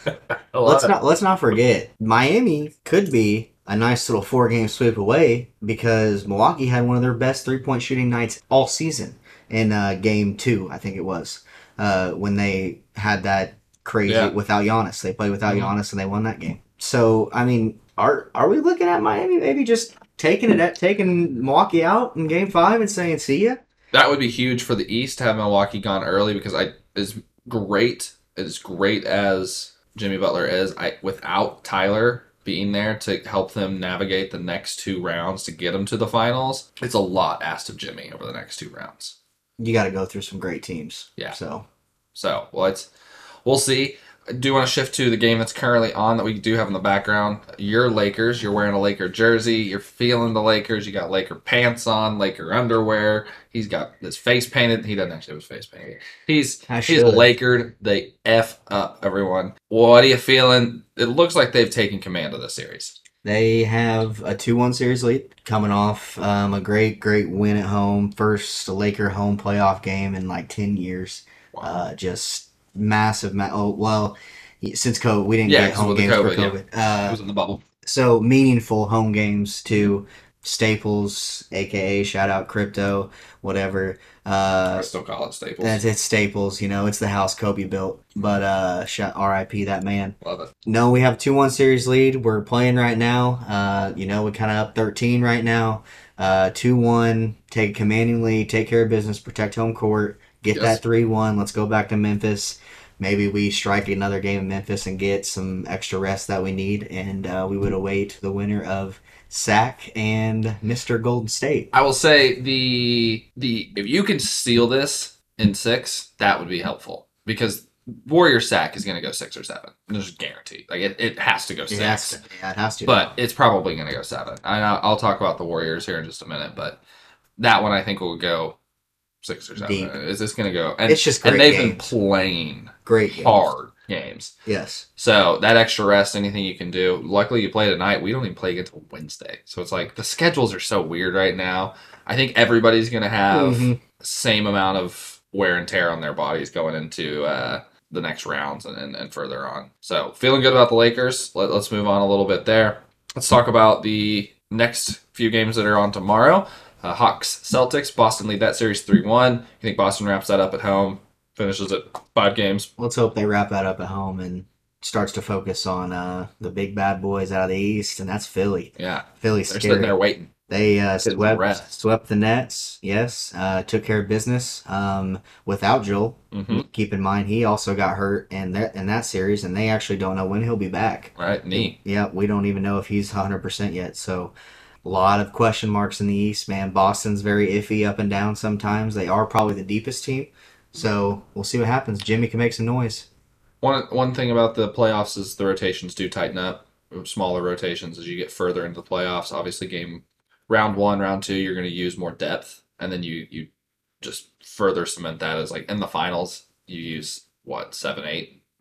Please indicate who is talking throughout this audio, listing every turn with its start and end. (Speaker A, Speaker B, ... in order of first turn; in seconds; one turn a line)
Speaker A: 0.1-0.9
Speaker B: 0.6-23.6
Speaker A: 14.1-14.3
Speaker A: 15.5-15.7
Speaker A: 23.9-39.2
Speaker B: 39.6-41.6
Speaker A: 42.1-42.9
Speaker A: 43.5-63.0
Speaker B: 56.7-57.3
Speaker B: 63.2-77.2
Speaker A: 71.5-71.8
Speaker A: 75.5-77.6
Speaker B: 77.8-84.9
Speaker A: 84.7-85.8
Speaker B: 85.6-111.7
Speaker A: 90.2-90.5
Speaker A: 100.5-100.8
Speaker A: 111.7-122.2
Speaker B: 121.7-123.1
Speaker A: 122.8-126.8
Speaker A: 127.4-128.6
Speaker A: 129.2-134.3
Speaker B: 129.6-129.9
Speaker B: 130.9-131.9
Speaker B: 132.9-133.5
Speaker B: 134.5-134.9
Speaker A: 135.0-162.7
Speaker B: 143.3-143.8
Speaker B: 162.8-169.9
Speaker A: 168.8-170.3
Speaker B: 170.5-184.3
Speaker A: 171.0-171.7
Speaker A: 176.3-176.7
Speaker A: 181.2-181.8
Speaker B: 184.8-193.1
Speaker A: 193.6-203.5
Speaker A: 204.0-208.4